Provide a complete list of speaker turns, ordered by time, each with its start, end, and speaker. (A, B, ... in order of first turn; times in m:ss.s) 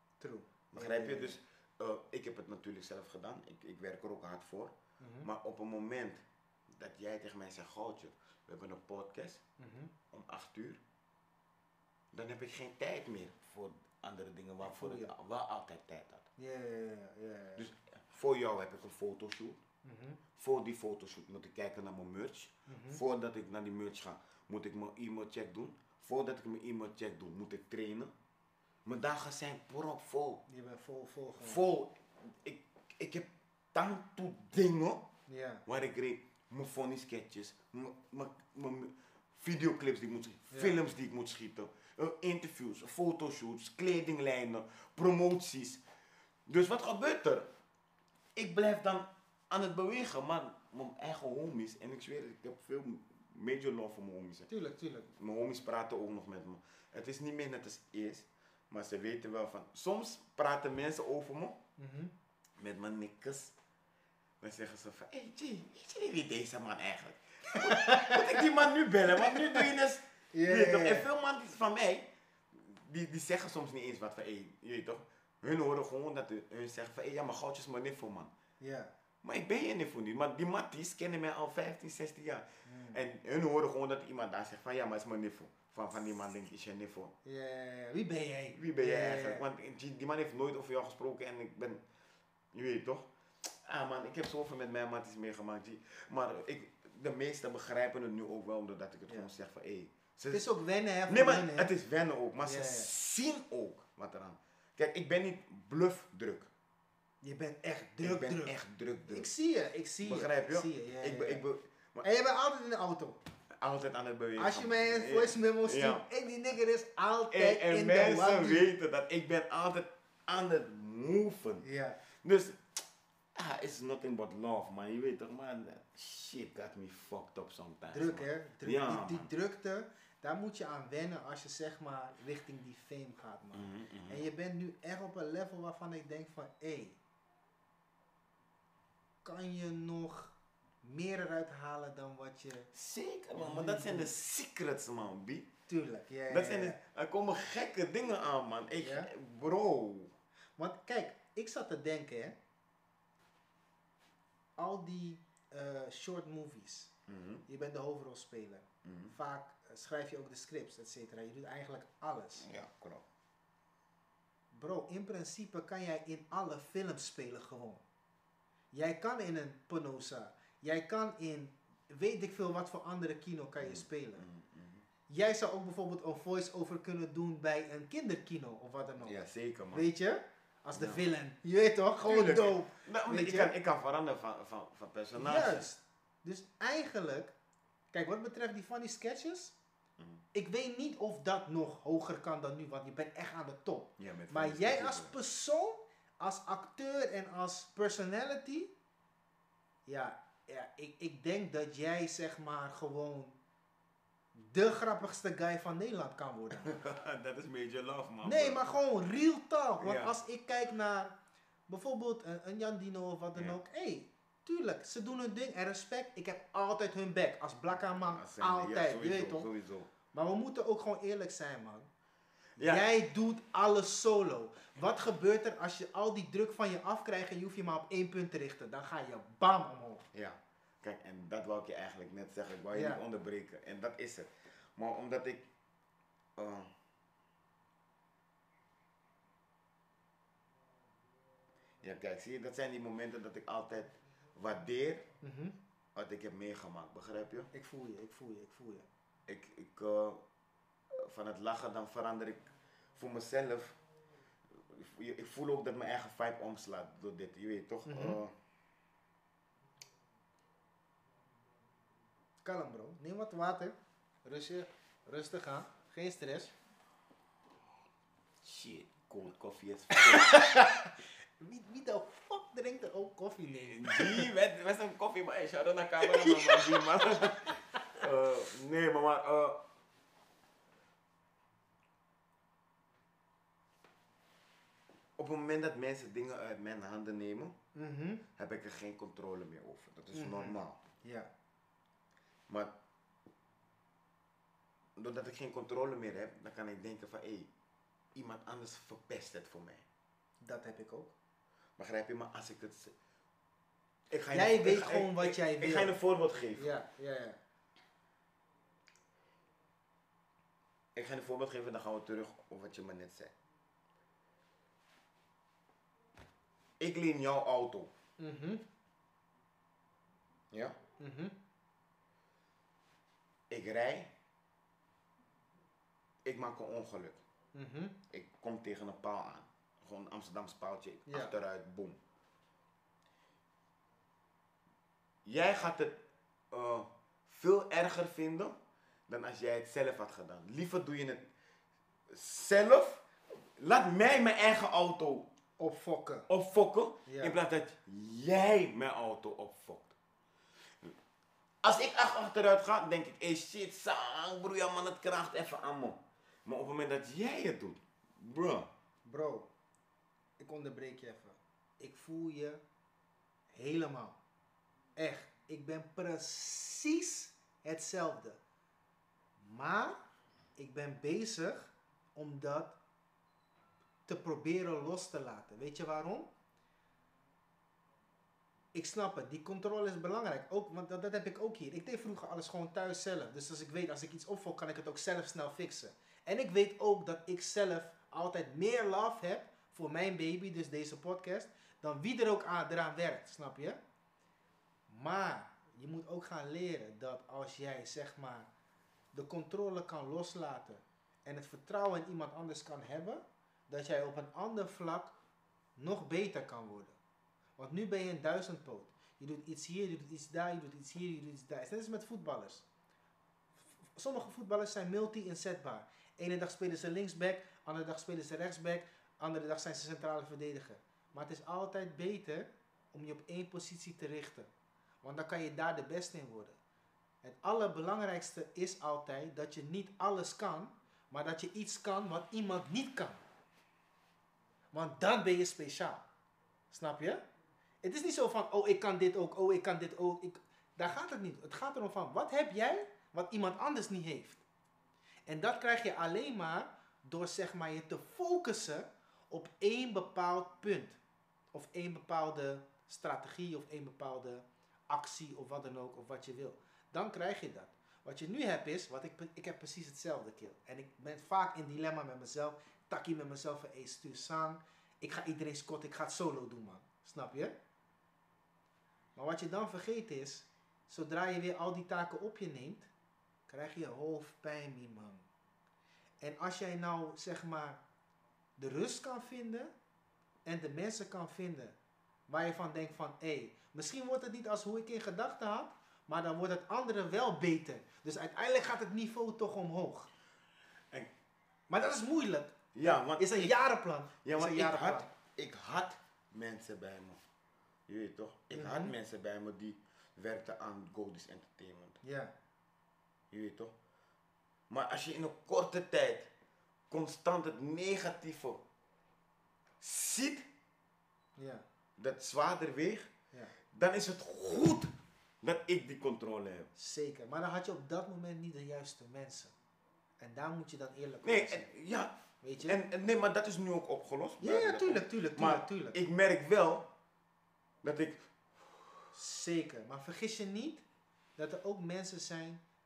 0:00.2-0:01.4 A
0:00.7-0:09.4 B
0:05.0-0:05.3 A
0:09.6-0:09.9 A
0:10.1-0:10.8 B
0:12.1-0:16.2 B
0:14.6-0:15.1 A
0:16.4-0:17.7 A
0:17.6-0:19.6 B
0:19.8-0:20.2 A
0:20.4-0:28.1 B
0:22.7-0:23.0 A
0:28.8-0:30.4 B
0:30.5-0:31.6 A
0:31.4-0:35.0 B
0:35.3-0:35.6 A
0:35.6-0:45.8 B
0:40.5-0:40.8 A
0:46.5-0:47.5 B
0:48.4-0:54.5 B
0:54.5-0:55.1 A
0:55.2-1:01.6 B
1:01.8-1:02.1 A
1:02.6-1:03.5 B
1:04.4-1:18.3 B
1:07.5-1:08.5 A
1:09.1-1:09.6 A
1:10.3-1:11.1 A
1:18.6-1:18.9 A
1:19.2-1:27.1 B
1:22.6-1:23.0 A
1:27.2-1:29.4 A
1:28.5-1:31.8 B
1:32.5-1:33.1 B
1:33.6-1:40.4 B
1:40.3-1:41.7 A
1:41.1-1:46.5 B
1:42.4-1:42.9 A
1:47.2-1:48.6 A
1:48.0-1:49.3 B
1:49.1-1:51.4 A
1:50.0-1:52.0 B
1:52.0-1:53.2 A
1:53.6-1:56.0 B
1:54.4-1:58.7 A
1:57.3-2:01.6 B
2:01.6-2:02.0 A
2:02.2-2:02.8 B
2:03.3-2:09.3 B
2:07.9-2:17.0 A
2:13.5-2:14.2 B
2:19.2-2:22.7 A
2:22.7-2:25.5 B
2:23.4-2:24.1 A
2:25.7-2:26.8 A
2:26.3-2:30.1 B
2:28.8-2:29.1 A
2:30.6-2:32.4 A
2:34.6-2:36.9 A
2:37.1-2:37.4 B
2:37.5-2:42.4 A
2:38.8-2:39.1 B
2:42.4-2:43.0 B
2:44.5-2:47.8 A
2:48.7-2:54.2 A
2:53.6-2:54.8 B
2:55.1-2:59.1 A
2:59.0-2:59.8 B
2:59.7-3:03.5 A
3:00.7-3:01.1 B
3:02.0-3:05.7 B
3:05.2-3:07.3 A
3:07.9-3:09.5 A
3:10.3-3:18.7 A
3:14.0-3:15.1 B
3:19.9-3:23.4 A
3:24.3-3:26.8 A
3:26.6-3:28.7 B
3:28.2-3:31.1 A
3:29.8-3:30.1 B
3:31.7-3:39.5 A
3:38.0-3:39.9 B
3:40.1-3:41.9 A
3:42.6-3:42.8 B
3:42.6-3:50.0 A
3:50.1-3:55.4 B
3:52.7-3:53.0 A
3:56.4-3:56.7 B
4:01.8-4:05.0 B
4:05.2-4:05.6 A
4:05.9-4:07.5 B
4:07.5-4:08.9 A
4:09.3-4:10.2 B
4:10.9-4:13.8 B
4:14.5-4:18.3 B
4:17.8-4:18.2 A
4:22.4-4:26.5 A
4:28.4-4:30.5 B
4:29.9-4:34.3 A
4:33.7-4:39.6 B
4:36.1-4:38.0 A
4:45.2-4:47.6 B
4:47.7-4:48.2 A
4:48.4-4:50.8 B
4:50.1-4:51.3 A
4:55.0-4:57.5 B
4:58.1-4:59.8 B
5:00.4-5:01.1 A
5:01.8-5:02.9 B
5:04.1-5:06.7 B
5:04.3-5:06.0 A
5:06.6-5:07.4 A
5:10.9-5:13.3 B
5:16.8-5:17.9 B
5:18.2-5:18.6 A
5:20.5-5:20.8 B
5:21.0-5:21.3 A
5:23.5-5:24.1 B
5:26.2-5:27.2 B
5:27.5-5:28.0 A
5:28.1-5:32.0 B
5:31.1-5:31.3 A
5:35.2-5:35.9 B
5:36.5-5:38.6 B
5:39.1-5:41.2 B
5:42.1-5:43.0 B
5:43.6-5:45.3 B
5:45.6-5:46.3 A
5:46.3-5:50.0 B
5:47.0-5:47.4 A
5:51.6-5:58.7 B
5:59.0-5:59.5 A
6:00.4-6:02.6 A
6:03.5-6:04.2 A
6:05.0-6:08.4 A
6:09.4-6:10.0 A
6:10.6-6:12.8 A
6:14.1-6:16.3 A
6:18.7-6:33.8 A
6:34.9-6:38.5 A
6:39.1-6:45.2 A
6:45.8-6:47.0 A
6:47.6-6:52.6 A
6:53.7-7:04.5 A
7:05.0-7:06.6 A
7:07.2-7:13.2 A
7:14.7-7:16.0 A
7:16.7-7:17.2 A
7:17.8-7:24.4 A
7:25.3-7:31.0 A
7:31.5-7:47.5 A
7:49.2-7:52.9 A
7:53.5-7:55.3 A
7:56.2-7:57.8 A
7:58.6-7:59.7 A
8:00.4-8:01.8 A
8:02.3-8:10.1 A
8:11.7-8:15.1 A
8:12.7-8:13.6 B
8:14.2-8:17.2 B
8:17.9-8:22.0 B
8:18.5-8:18.9 A
8:22.0-8:22.3 A
8:23.3-8:23.7 B
8:24.7-8:26.3 B
8:26.9-8:28.6 B
8:29.8-8:30.5 B
8:31.4-8:31.6 A
8:32.0-8:33.1 B
8:33.7-8:36.7 B
8:36.8-8:39.5 A
8:40.2-8:41.7 A
8:41.2-8:46.9 B
8:42.4-8:42.8 A
8:44.4-8:46.0 A
8:47.8-8:48.8 B
8:49.1-8:50.8 A
8:51.4-8:52.6 A